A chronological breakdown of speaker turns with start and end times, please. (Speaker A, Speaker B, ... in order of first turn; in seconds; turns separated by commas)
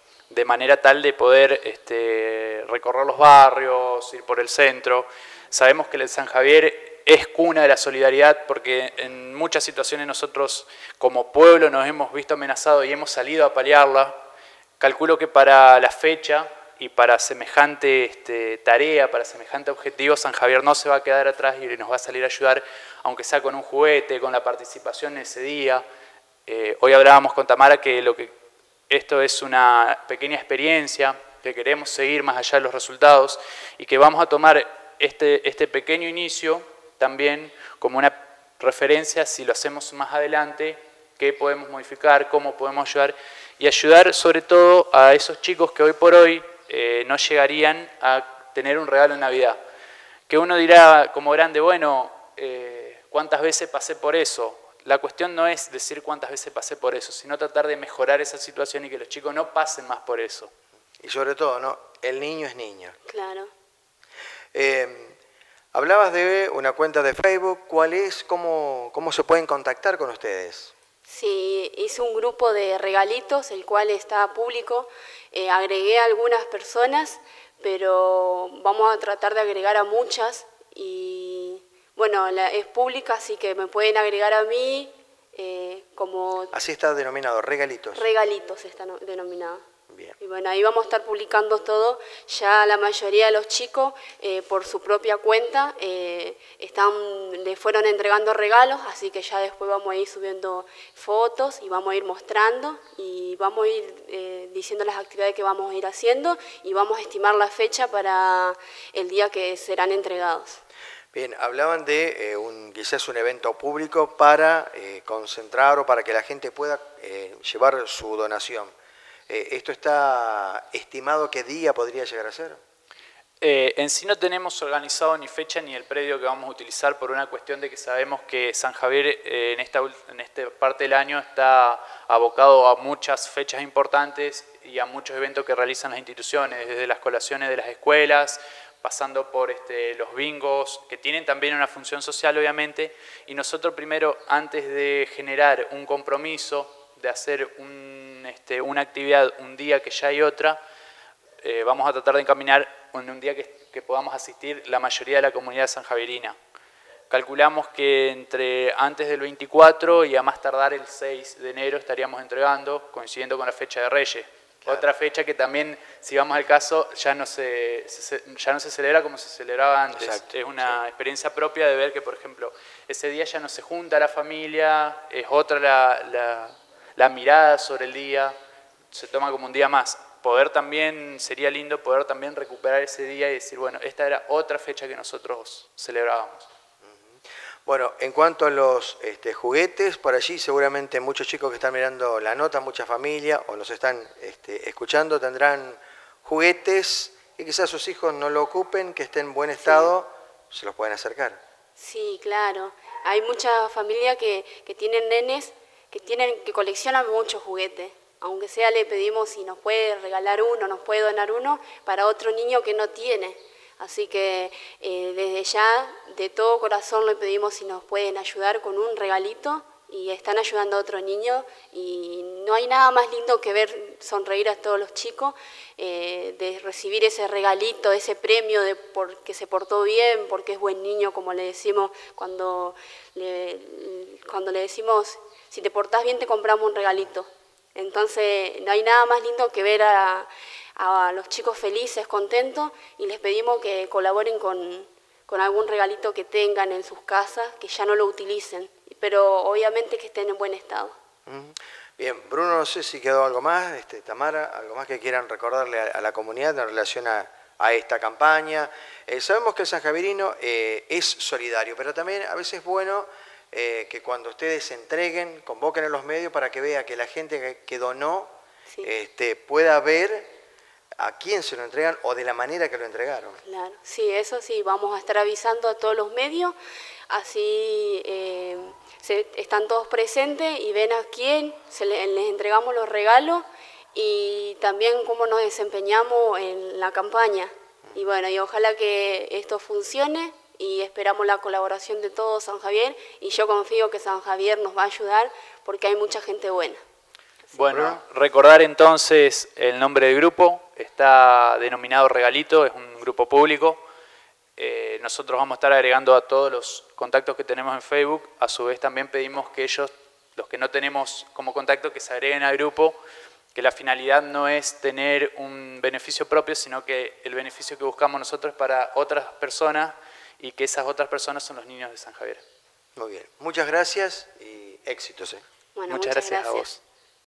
Speaker A: 0.3-14.2, Speaker A: 14.8-25.8, Speaker A: 26.5-28.3, Speaker A: 28.9-49.6, Speaker A: 50.3-60.5, Speaker B: 61.0-63.0, Speaker C: 63.1-63.5, Speaker B: 64.5-65.2, Speaker B: 65.7-70.7, Speaker C: 71.1-86.5, Speaker B: 86.5-88.0, Speaker C: 87.9-89.6, Speaker C: 90.2-110.6, Speaker B: 111.1-118.7, Speaker B: 119.3-122.6, Speaker A: 123.4-150.6, Speaker A: 151.4-156.4, Speaker A: 157.1-178.3, Speaker B: 169.9-170.8, Speaker A: 178.9-186.5, Speaker B: 187.7-201.4, Speaker C: 199.6-199.9, Speaker C: 201.8-250.9, Speaker B: 251.3-268.3, Speaker B: 268.8-270.3, Speaker B: 271.0-273.4, Speaker C: 273.4-276.6, Speaker C: 277.1-296.8, Speaker A: 297.5-303.8, Speaker B: 297.7-298.0, Speaker A: 304.6-313.0, Speaker A: 313.5-322.4, Speaker B: 323.0-325.4, Speaker C: 325.8-326.7, Speaker A: 325.9-326.8